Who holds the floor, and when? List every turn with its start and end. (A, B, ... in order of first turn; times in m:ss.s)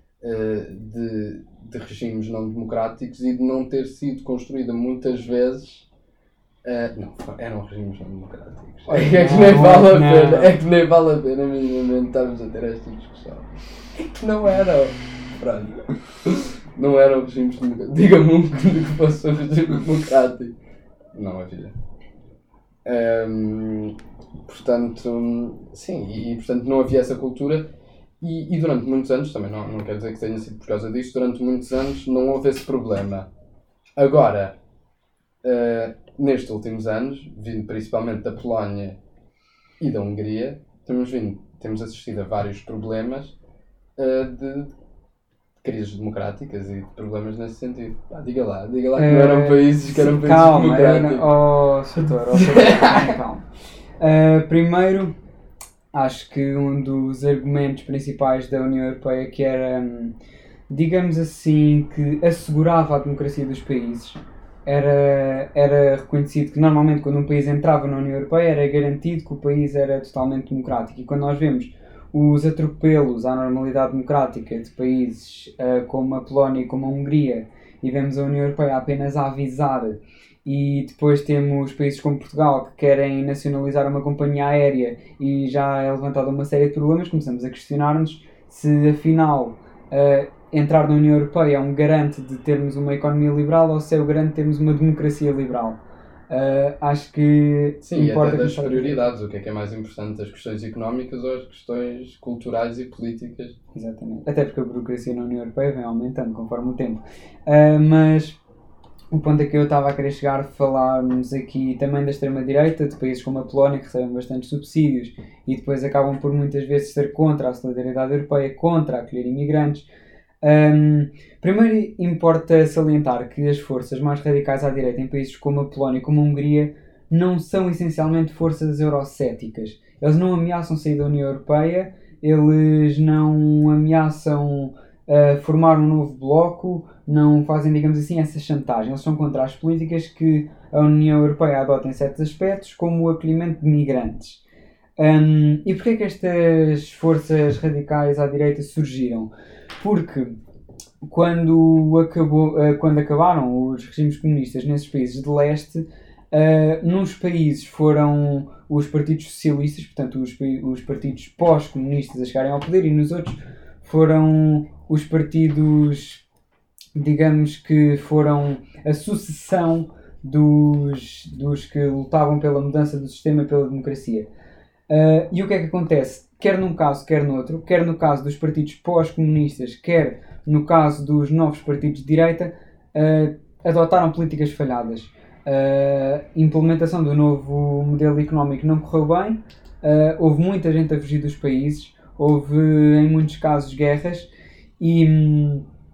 0:00.2-0:05.9 A
0:06.6-0:20.6 A
0:08.9-0:10.6 B
0:21.1-0:21.7 A
0:22.8-0:33.3 A
0:34.0-0:34.6 A
0:35.4-0:39.0 A
0:39.8-0:43.4 A
0:44.0-0:44.7 A
0:45.6-0:51.3 A
0:49.0-0:53.5 B
0:52.0-0:53.2 A
0:54.0-0:55.1 B
0:55.9-1:00.1 B
1:00.7-1:39.1 B
1:37.8-1:43.6 A
1:43.7-1:48.4 B
1:49.1-1:59.9 B
2:00.4-2:24.4 B
2:25.0-2:30.4 B
2:31.0-2:46.2 B
2:47.0-2:54.3 B
2:54.9-3:14.3 B
3:14.8-3:15.6 B